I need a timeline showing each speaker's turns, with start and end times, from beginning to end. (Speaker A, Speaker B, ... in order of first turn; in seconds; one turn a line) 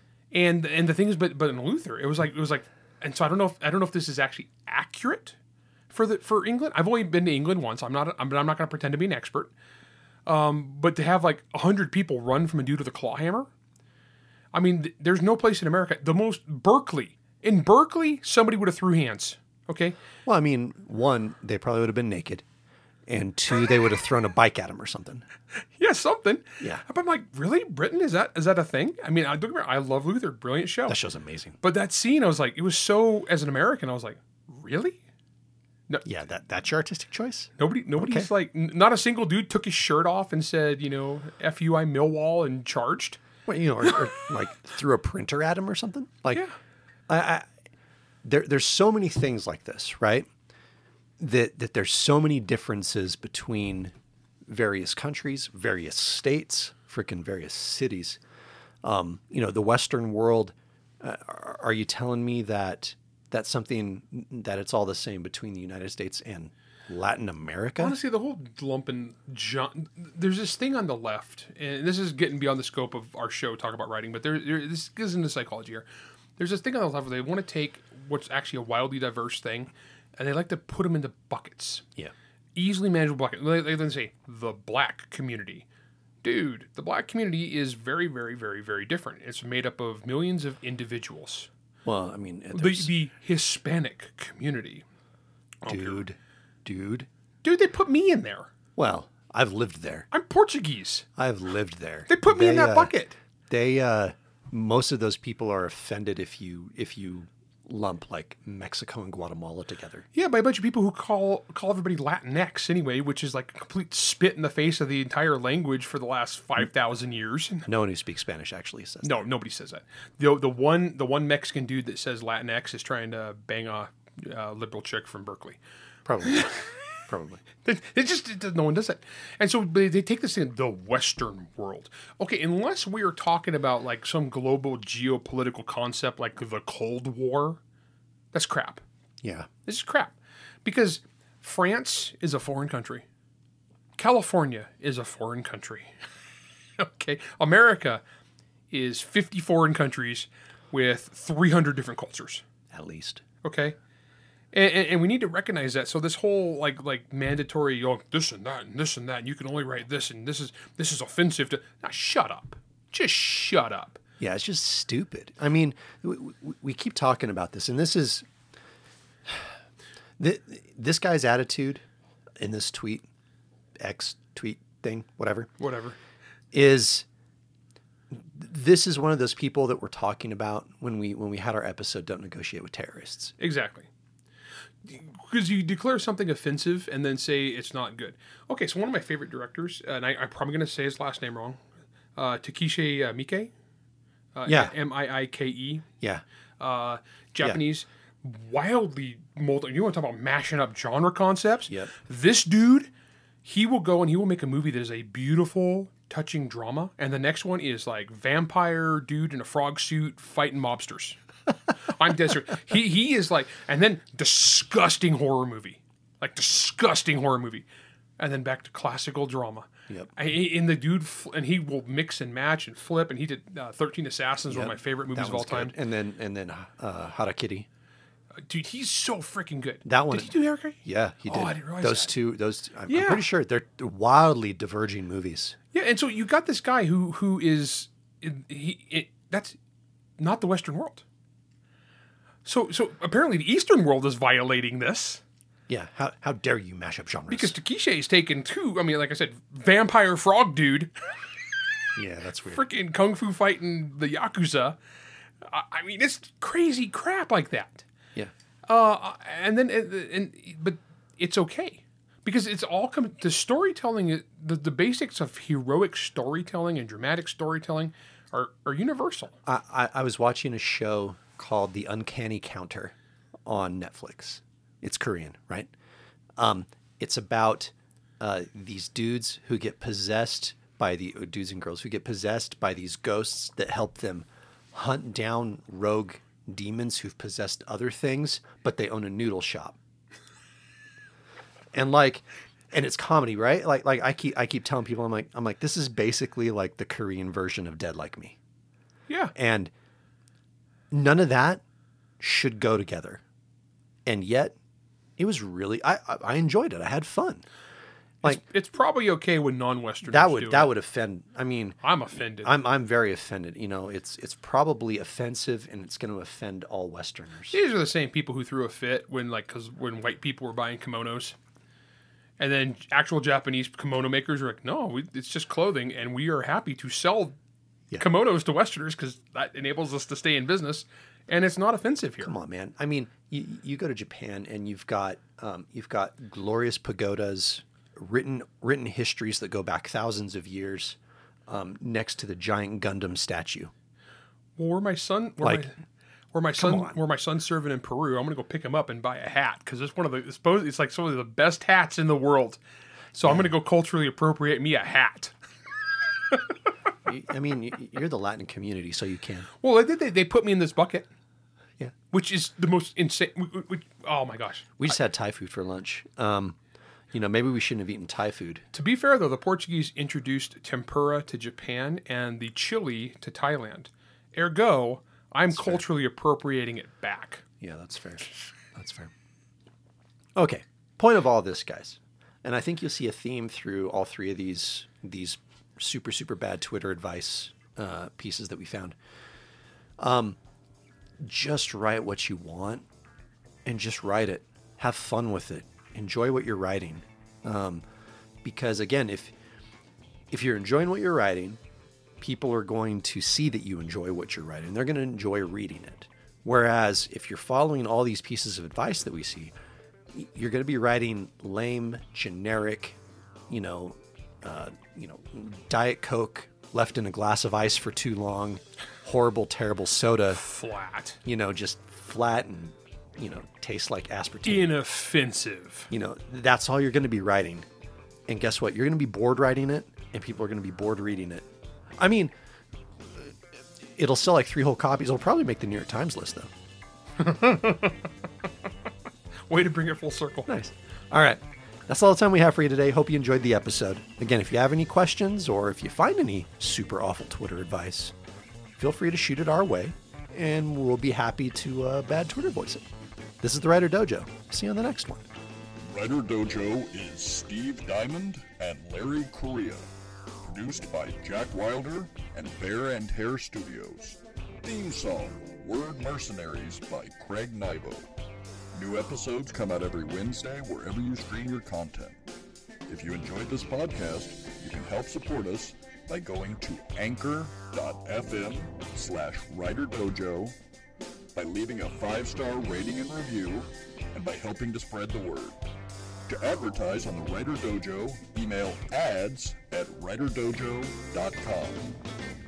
Speaker A: 0.3-5.3
Speaker A: 5.9-9.5
Speaker A: 10.2-13.5
Speaker A: 14.5-19.9
Speaker B: 20.2-22.4
Speaker B: 23.1-25.2
Speaker A: 25.8-31.0
Speaker B: 30.9-31.6
Speaker A: 31.6-35.0
Speaker B: 36.0-38.3
Speaker A: 37.6-43.2
Speaker B: 43.5-46.4
Speaker B: 47.1-47.5
Speaker B: 48.2-50.3
Speaker B: 51.2-53.9
Speaker B: 54.5-58.2
Speaker B: 58.8-68.0
Speaker A: 67.8-75.8
Speaker A: 76.4-81.8
Speaker A: 82.5-85.7
Speaker A: 86.2-91.5
Speaker B: 91.8-92.9
Speaker A: 92.5-94.8
Speaker A: 95.6-96.0
Speaker B: 95.7-97.1
Speaker A: 97.4-98.5
Speaker B: 98.8-100.1
Speaker A: 100.1-101.0
Speaker B: 101.2-102.9
Speaker A: 102.1-103.2
Speaker B: 103.5-110.0
Speaker A: 110.1-117.7
Speaker B: 117.7-119.2
Speaker A: 119.0-125.6
Speaker B: 126.0-126.4
Speaker A: 126.2-126.7
Speaker B: 127.1-127.4
Speaker A: 127.6-137.6
Speaker A: 138.3-138.8
Speaker B: 139.2-139.5
Speaker A: 139.6-143.0
Speaker A: 144.0-145.9
Speaker A: 146.8-148.0
Speaker A: 148.7-152.4
Speaker B: 152.7-153.2
Speaker A: 153.4-153.8
Speaker A: 154.5-164.0
Speaker B: 164.2-168.2
Speaker B: 170.2-171.8
Speaker B: 172.4-173.1
Speaker B: 173.8-175.5
Speaker A: 175.6-176.0
Speaker B: 176.5-177.1
Speaker B: 178.1-183.3
Speaker A: 183.4-183.9
Speaker A: 184.8-191.6
Speaker A: 192.2-193.5
Speaker A: 194.3-195.9
Speaker B: 194.4-194.7
Speaker A: 196.6-202.9
Speaker A: 203.4-211.2
Speaker A: 211.8-217.7
Speaker A: 218.2-225.7
Speaker B: 224.5-227.7
Speaker A: 228.4-232.1
Speaker B: 229.8-235.6
Speaker A: 232.9-233.3
Speaker A: 235.7-239.6
Speaker A: 240.2-241.0
Speaker A: 242.4-245.2
Speaker B: 245.7-247.5
Speaker A: 247.3-250.9
Speaker B: 251.9-252.6
Speaker A: 252.4-254.8
Speaker A: 255.4-257.8
Speaker A: 258.7-269.3
Speaker B: 269.4-272.9
Speaker B: 273.4-275.7
Speaker B: 276.4-289.8
Speaker B: 291.7-298.4
Speaker A: 299.1-299.3
Speaker B: 299.3-299.7
Speaker B: 300.9-301.6
Speaker B: 302.2-303.2
Speaker B: 304.1-304.6
Speaker B: 305.2-307.4
Speaker A: 308.2-310.7
Speaker B: 310.1-311.8
Speaker A: 311.8-312.5
Speaker B: 312.4-317.6
Speaker A: 317.5-321.4
Speaker A: 322.4-327.4
Speaker A: 328.0-332.3
Speaker B: 332.2-341.0
Speaker B: 341.5-343.7
Speaker A: 344.6-345.8
Speaker B: 345.4-345.6
Speaker A: 346.3-352.6
Speaker B: 346.5-347.0
Speaker A: 353.1-355.3
Speaker B: 353.2-353.5
Speaker B: 357.0-359.5
Speaker A: 359.6-361.1
Speaker A: 362.1-364.9
Speaker B: 364.8-366.6
Speaker B: 367.1-368.6
Speaker A: 368.7-377.4
Speaker B: 375.5-375.8
Speaker B: 377.6-379.1
Speaker B: 380.3-389.0
Speaker B: 390.0-390.4
Speaker B: 391.2-392.9
Speaker B: 393.6-397.8
Speaker B: 398.4-399.3
Speaker B: 400.3-401.6
Speaker B: 402.2-409.5
Speaker B: 410.1-413.0
Speaker B: 413.5-420.4
Speaker A: 420.3-421.2
Speaker B: 421.2-424.7
Speaker A: 424.4-425.9
Speaker B: 425.9-427.7
Speaker B: 428.3-431.5
Speaker B: 432.0-432.3
Speaker B: 433.0-436.5
Speaker A: 437.2-438.1
Speaker A: 439.5-440.5
Speaker B: 440.5-448.1
Speaker B: 448.8-452.8
Speaker B: 453.4-455.3
Speaker C: 455.9-459.9
Speaker C: 460.4-468.1
Speaker C: 468.7-472.2
Speaker C: 472.9-480.6
Speaker C: 481.3-485.6
Speaker C: 486.3-492.0